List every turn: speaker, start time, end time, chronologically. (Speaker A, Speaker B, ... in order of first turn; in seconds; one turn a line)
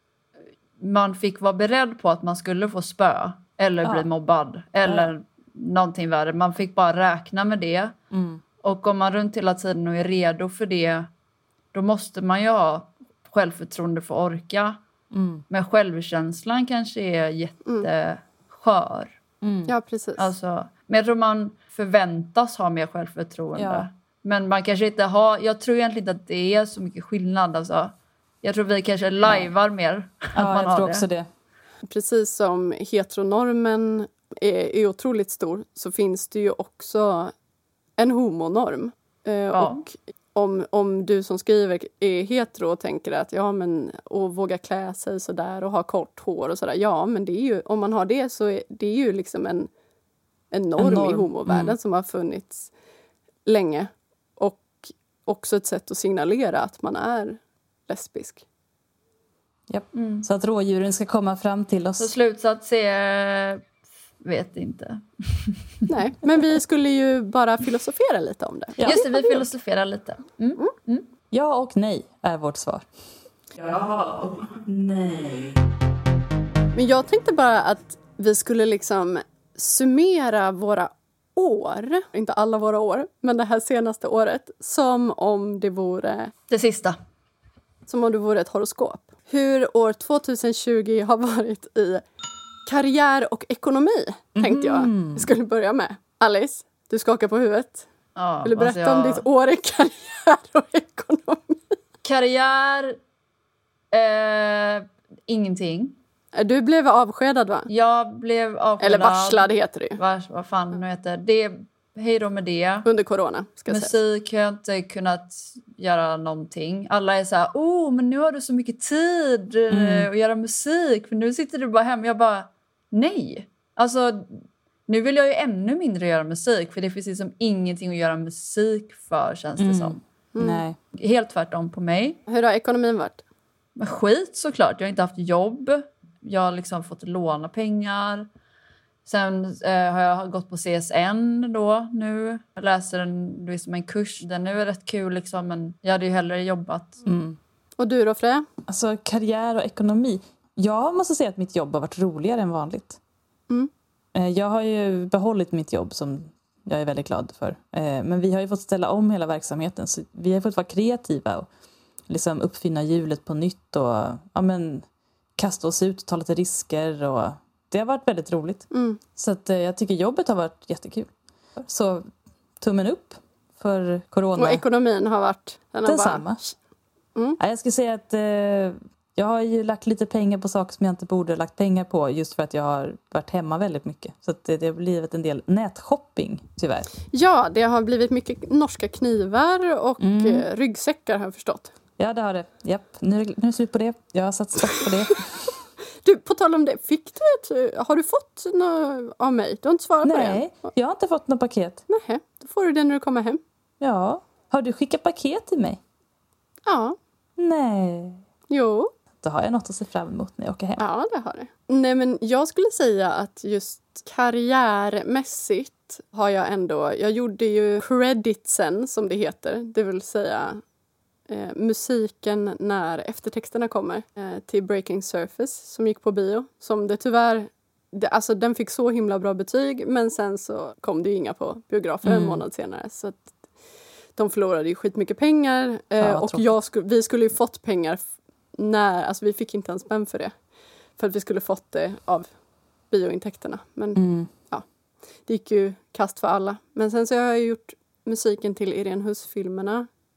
Speaker A: 0.8-7.9
Speaker B: 3.8-4.1
Speaker B: 8.1-8.4
Speaker A: 8.6-11.1
Speaker A: 11.7-14.8
Speaker B: 15.1-15.4
Speaker A: 15.5-19.1
Speaker B: 19.4-19.7
Speaker C: 19.7-20.3
Speaker A: 20.2-31.1
Speaker B: 23.5-23.9
Speaker B: 29.2-29.5
Speaker B: 30.3-31.3
Speaker C: 31.9-37.3
Speaker C: 38.0-49.7
Speaker A: 39.5-39.8
Speaker C: 50.5-52.7
Speaker B: 50.8-51.7
Speaker C: 53.5-58.4
Speaker B: 59.7-62.1
Speaker A: 59.9-60.2
Speaker A: 62.0-63.6
Speaker A: 64.2-65.6
Speaker C: 65.9-69.4
Speaker B: 68.8-69.1
Speaker A: 68.8-71.1
Speaker B: 71.3-72.9
Speaker B: 73.5-75.5
Speaker C: 76.7-86.3
Speaker A: 86.5-87.0
Speaker C: 87.9-92.0
Speaker C: 92.7-97.9
Speaker B: 94.3-95.3
Speaker A: 98.2-99.2
Speaker C: 98.4-101.8
Speaker A: 102.0-103.0
Speaker A: 103.9-106.0
Speaker C: 106.3-107.7
Speaker A: 107.7-112.8
Speaker C: 108.8-110.0
Speaker C: 112.8-114.0
Speaker A: 113.7-130.0
Speaker B: 119.7-120.1
Speaker B: 129.6-130.8
Speaker C: 130.3-130.6
Speaker A: 130.9-132.2
Speaker C: 132.3-133.2
Speaker A: 133.8-138.3
Speaker A: 139.1-147.0
Speaker B: 147.1-147.4
Speaker C: 147.8-148.4
Speaker B: 148.7-153.0
Speaker B: 154.1-161.5
Speaker B: 162.1-164.8
Speaker B: 165.4-172.1
Speaker C: 168.7-169.0
Speaker B: 172.6-174.6
Speaker C: 174.3-176.5
Speaker B: 175.8-176.4
Speaker B: 177.4-186.9
Speaker C: 187.1-191.7
Speaker B: 190.0-190.4
Speaker B: 192.0-195.4
Speaker C: 196.0-200.4
Speaker B: 200.0-201.8
Speaker C: 201.9-203.4
Speaker B: 203.8-205.8
Speaker C: 206.7-206.9
Speaker B: 207.4-208.2
Speaker C: 208.5-208.9
Speaker B: 209.2-210.8
Speaker C: 210.8-220.6
Speaker C: 221.3-233.3
Speaker B: 232.0-232.4
Speaker C: 234.2-238.0
Speaker B: 236.0-236.6
Speaker C: 238.5-240.3
Speaker C: 241.0-242.3
Speaker C: 242.9-244.7
Speaker B: 243.9-244.3
Speaker C: 245.2-249.9